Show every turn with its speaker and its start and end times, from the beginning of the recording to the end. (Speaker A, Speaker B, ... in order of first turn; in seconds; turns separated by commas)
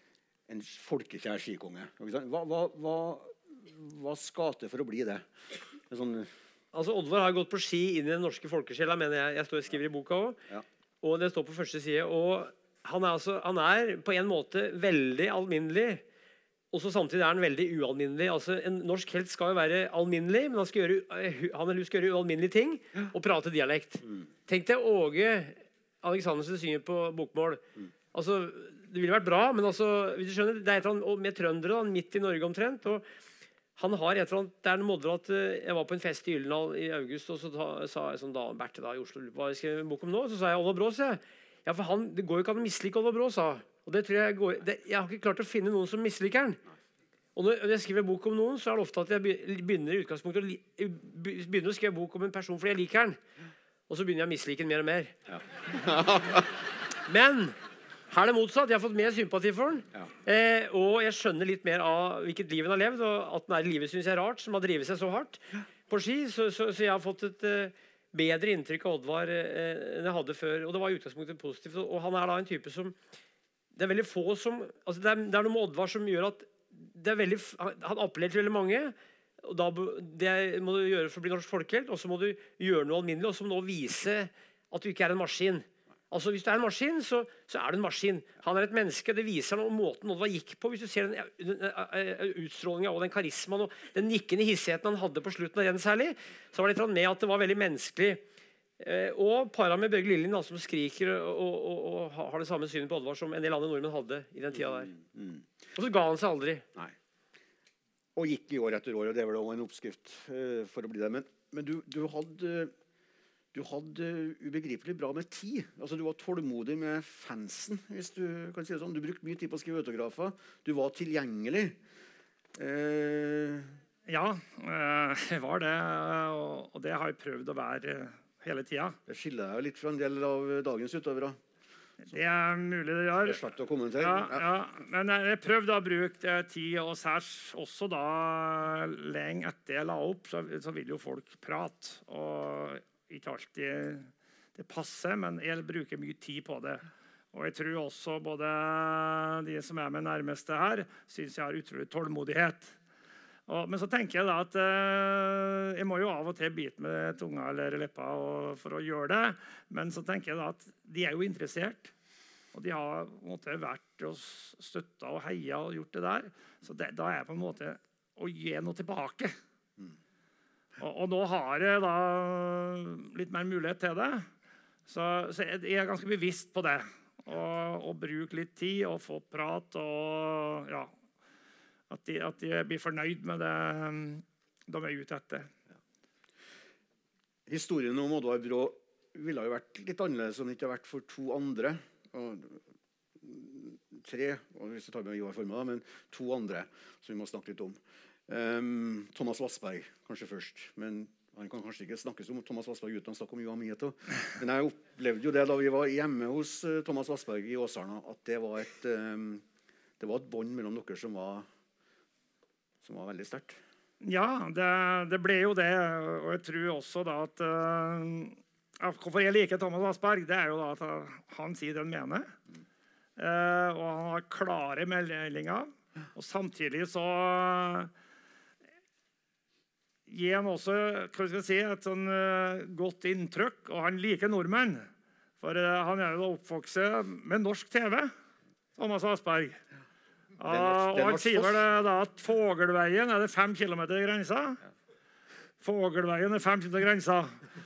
Speaker A: 0.5-5.3, Speaker A: 5.9-6.3, Speaker B: 6.7-10.4, Speaker B: 11.0-16.0, Speaker B: 16.7-27.6, Speaker B: 28.1-33.0, Speaker B: 33.8-46.6, Speaker B: 47.3-53.2, Speaker B: 53.9-55.1, Speaker A: 55.3-56.5, Speaker B: 57.1-57.5, Speaker B: 58.1-73.0, Speaker B: 73.7-98.2, Speaker B: 98.8-104.9, Speaker A: 104.5-105.4, Speaker B: 105.7-106.7, Speaker A: 108.2-112.7, Speaker A: 113.5-121.8, Speaker A: 122.5-123.8, Speaker C: 124.1-129.0, Speaker A: 129.1-131.4, Speaker C: 132.1-133.4, Speaker A: 133.2-134.5, Speaker C: 134.0-152.7, Speaker C: 153.5-161.9, Speaker C: 162.5-169.3, Speaker C: 170.8-174.3, Speaker C: 174.9-180.9, Speaker C: 181.9-185.5, Speaker A: 187.5-192.6, Speaker A: 193.2-209.4, Speaker A: 210.0-211.5, Speaker A: 212.8-213.6, Speaker C: 214.0-222.3, Speaker C: 223.2-227.9, Speaker C: 230.1-234.9, Speaker C: 235.4-238.1, Speaker C: 238.8-239.6, Speaker C: 240.4-244.6, Speaker A: 240.4-241.8, Speaker C: 245.6-247.4